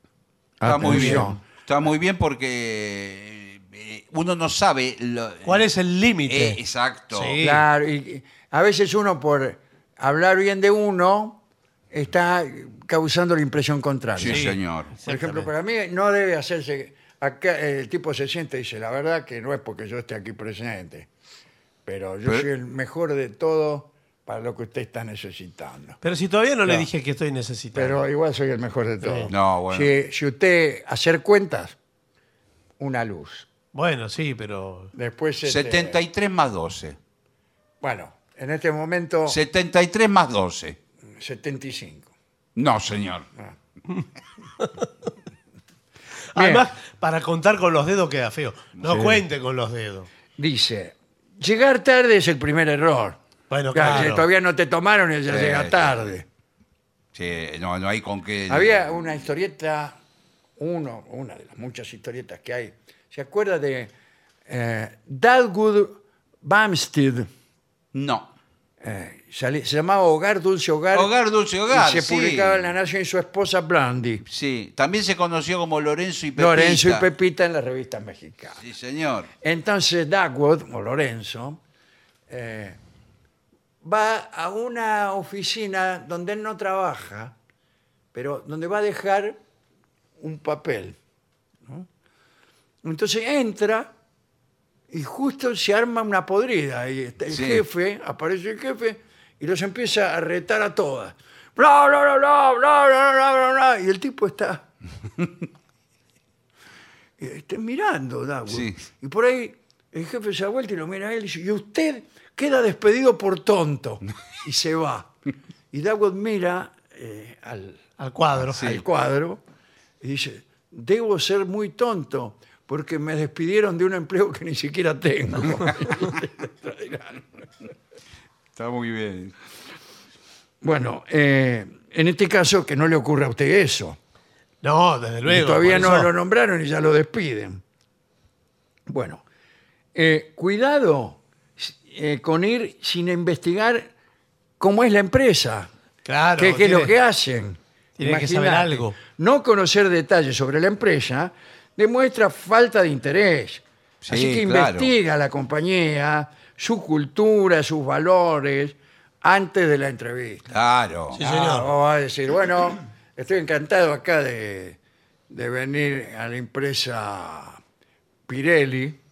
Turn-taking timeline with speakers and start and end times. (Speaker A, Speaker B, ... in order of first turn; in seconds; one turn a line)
Speaker A: 0.6-1.4
Speaker B: 0.6-5.7
Speaker C: 0.8-1.3
Speaker C: 5.5-7.7
Speaker B: 6.3-7.4
Speaker A: 7.4-11.4
Speaker A: 11.9-21.1
Speaker B: 14.2-14.9
Speaker C: 14.2-15.5
Speaker A: 21.9-26.0
Speaker C: 26.0-28.0
Speaker A: 27.8-31.8
Speaker C: 29.0-29.3
Speaker B: 29.3-29.9
Speaker A: 32.8-33.5
Speaker C: 33.7-34.9
Speaker A: 35.0-36.0
Speaker B: 35.4-37.0
Speaker A: 37.8-39.4
Speaker B: 39.3-40.8
Speaker A: 41.2-42.1
Speaker B: 42.5-43.3
Speaker C: 44.6-44.9
Speaker C: 46.3-50.1
Speaker A: 46.4-46.7
Speaker A: 48.8-49.2
Speaker A: 50.4-53.2
Speaker C: 53.5-54.2
Speaker A: 53.7-56.2
Speaker B: 55.3-56.1
Speaker B: 57.1-58.8
Speaker A: 58.5-60.0
Speaker A: 60.6-63.9
Speaker A: 64.5-67.3
Speaker B: 67.9-68.3
Speaker A: 68.8-71.1
Speaker B: 70.9-72.7
Speaker A: 71.7-74.2
Speaker B: 74.2-77.1
Speaker A: 76.3-78.6
Speaker B: 78.6-79.3
Speaker A: 79.4-81.6
Speaker A: 82.3-82.8
Speaker A: 83.8-87.3
Speaker A: 88.1-89.3
Speaker A: 90.2-91.0
Speaker A: 92.8-93.9
Speaker A: 94.9-104.6
Speaker B: 97.3-97.6
Speaker A: 107.2-115.1
Speaker B: 108.5-108.8
Speaker A: 115.7-117.8
Speaker C: 118.0-118.6
Speaker B: 118.4-118.8
Speaker A: 118.5-119.4
Speaker A: 120.0-127.2
Speaker B: 128.6-129.3
Speaker A: 130.6-134.0
Speaker C: 134.6-136.1
Speaker A: 135.3-137.6
Speaker A: 138.9-139.2
Speaker A: 139.9-143.9
Speaker A: 144.6-145.7
Speaker C: 146.0-146.9
Speaker A: 146.4-160.5
Speaker C: 148.0-148.9
Speaker B: 154.0-154.9
Speaker B: 160.5-161.2
Speaker C: 161.1-161.7
Speaker A: 161.2-164.8
Speaker A: 165.3-167.6
Speaker A: 168.3-169.0